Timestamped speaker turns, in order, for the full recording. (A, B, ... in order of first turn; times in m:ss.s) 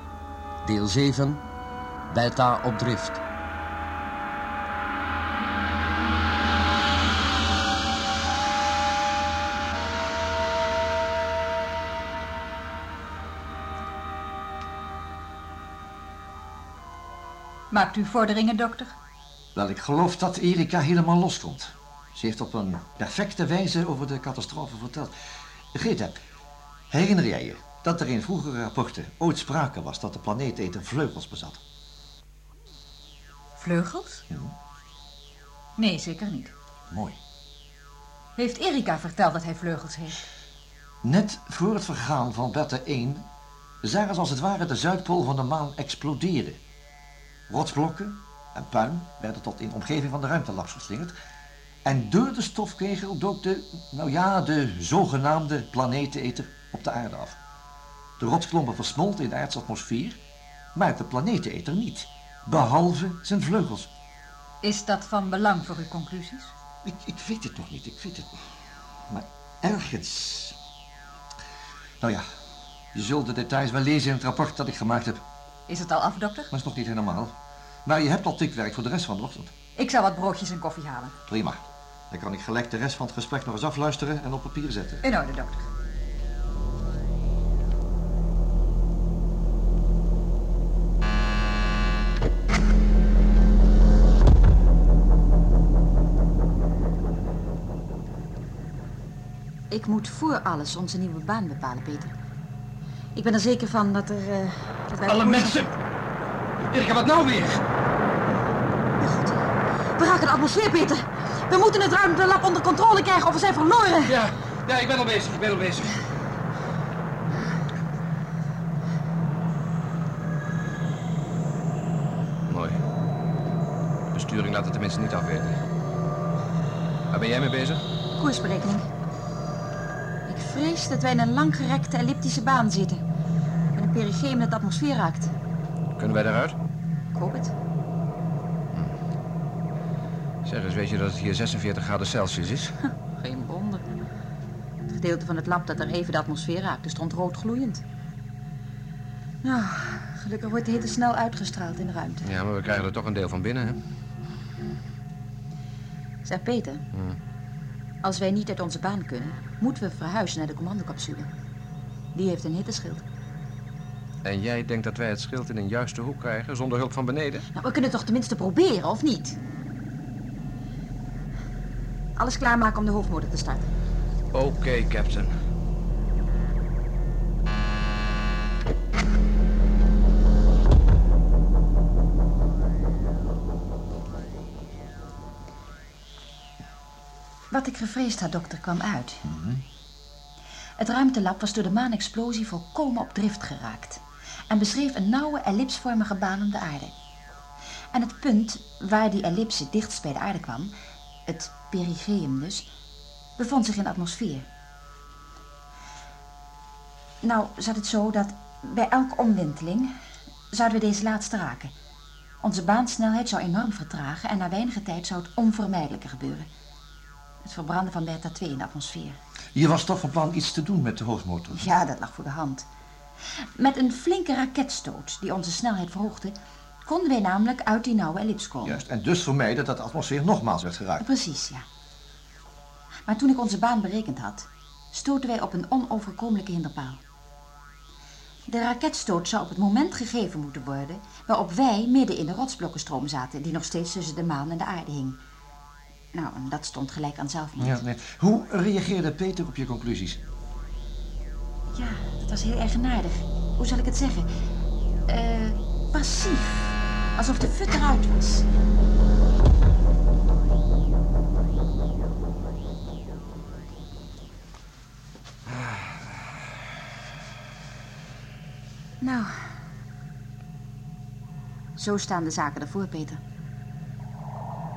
0:00.6-0:01.4 A
0:02.1-0:03.2 A
0:17.7-0:18.9 B
0:19.6-0:25.1 C
0:25.7-0:26.2 C
0:26.9-0:31.6 C
0:33.6-0:34.2 B
0:35.8-0:36.5 B
0:36.9-0:37.2 C
0:38.4-0:40.1 B
0:41.0-0:43.3 C
0:43.8-0:46.6 C
0:47.5-0:51.1 C
0:51.8-0:57.4 C
0:58.2-1:00.2 C
1:00.8-1:03.9 C
1:04.6-1:06.5 B
1:06.8-1:08.4 C
1:09.1-1:10.6 C
1:12.0-1:12.3 C
1:12.9-1:15.2 C
1:15.7-1:16.5 B
1:16.5-1:19.5 C
1:19.8-1:21.1 B
1:21.3-1:25.0 C
1:25.0-1:25.7 B
1:39.7-1:42.1 D
1:43.2-1:45.7 D
1:46.7-1:47.6 E
1:49.0-1:54.2 D
1:54.1-1:56.0 E
2:02.5-2:02.8 E
2:04.1-2:05.6 E
2:07.1-2:07.8 E
2:08.2-2:08.9 D
2:10.3-2:13.0 D
2:13.8-2:15.3 D
2:16.0-2:16.6 E
2:17.1-2:17.5 D
2:20.4-2:22.8 E
2:23.1-2:23.9 D
2:24.9-2:27.8 D
2:29.4-2:32.3 D
2:32.2-2:33.8 E
2:36.2-2:36.9 D
2:36.9-2:37.2 E
2:38.0-2:41.3 D
2:42.1-2:43.0 D
2:44.2-2:47.4 E
2:47.5-2:49.4 D
2:52.2-2:53.7 D
2:54.3-2:55.4 E
3:07.5-3:09.2 D
3:09.3-3:09.6 C
3:10.8-3:16.9 D
3:17.9-3:20.7 D
3:21.3-3:22.7 D
3:23.4-3:24.5 D
3:27.2-3:29.9 D
3:30.5-3:31.7 D
3:32.4-3:36.5 D
3:37.4-3:39.2 D
3:39.6-3:41.6 C
3:41.5-3:42.7 D
3:43.4-3:48.8 D
3:48.6-3:51.0 C
3:51.0-3:51.6 D
3:53.1-3:57.0 D
3:58.5-4:05.2 D
4:06.1-4:07.8 D
4:07.6-4:10.2 C
4:11.7-4:14.3 D
4:15.1-4:18.5 D
4:25.5-4:26.2 E
4:29.0-4:29.4 D
4:31.8-4:33.2 D